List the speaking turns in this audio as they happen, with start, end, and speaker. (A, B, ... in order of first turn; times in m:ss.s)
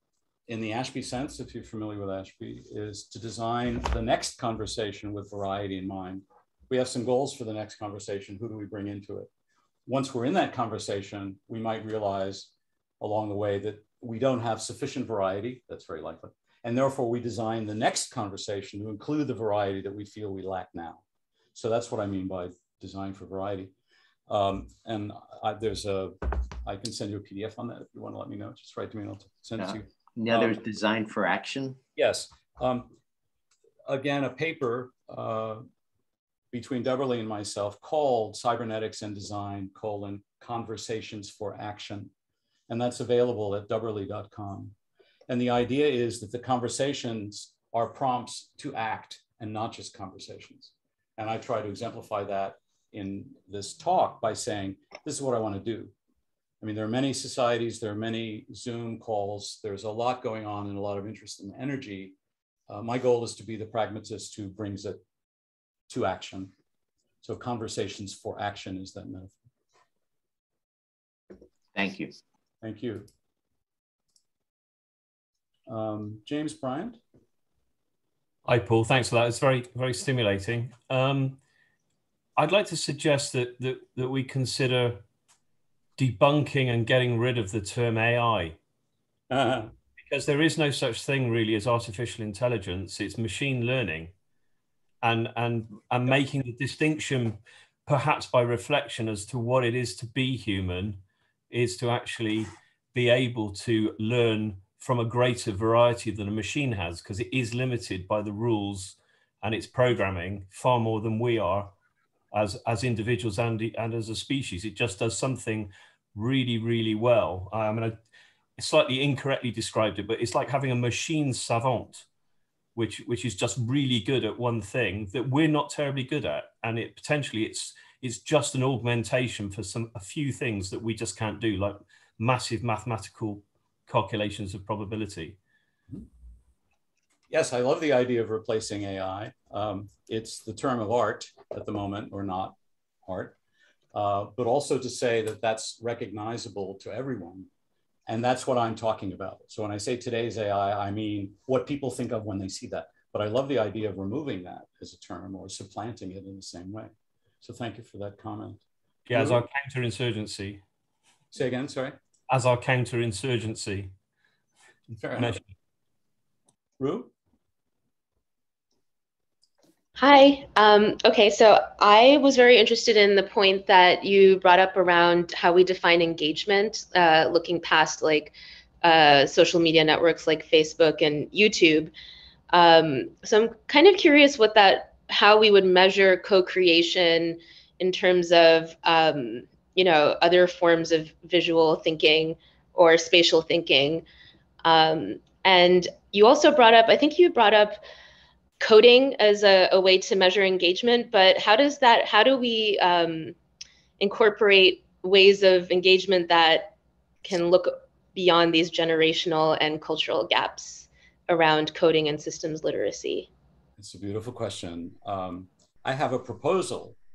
0:00.5-0:09.3 A
0:09.9-0:21.0 A
0:21.6-0:23.7 A
0:24.3-0:30.6 A
0:29.6-0:31.8 B
0:32.0-0:33.0 A
0:33.9-0:35.6 A
0:36.5-0:42.1 A
0:42.7-0:44.7 A
0:45.3-0:55.9 A
0:56.6-1:02.2 A
1:02.7-1:05.0 A
1:05.9-1:06.5 A
1:07.2-1:09.4 A
1:11.8-1:12.2 B
1:12.6-1:13.1 A
1:15.7-1:17.0 A
1:18.5-1:21.4 C
1:22.4-1:25.0 C
1:26.0-1:28.6 C
1:29.3-1:29.7 A
1:30.0-1:34.1 C
1:35.0-1:51.7 C
1:52.3-1:58.0 C
1:58.6-2:02.1 C
2:02.8-2:15.4 C
2:17.3-2:23.4 A
2:23.9-2:27.5 A
2:28.1-2:39.4 A
2:39.1-2:40.6 C
2:41.3-2:42.0 A
2:42.3-2:43.9 C
2:44.9-2:45.4 A
2:45.2-2:45.5 C
2:46.8-2:47.1 A
2:50.0-3:01.9 D
3:02.5-3:14.0 D
3:14.6-3:17.8 D
3:18.6-3:23.4 D
3:24.0-3:33.3 D
3:33.8-3:37.0 A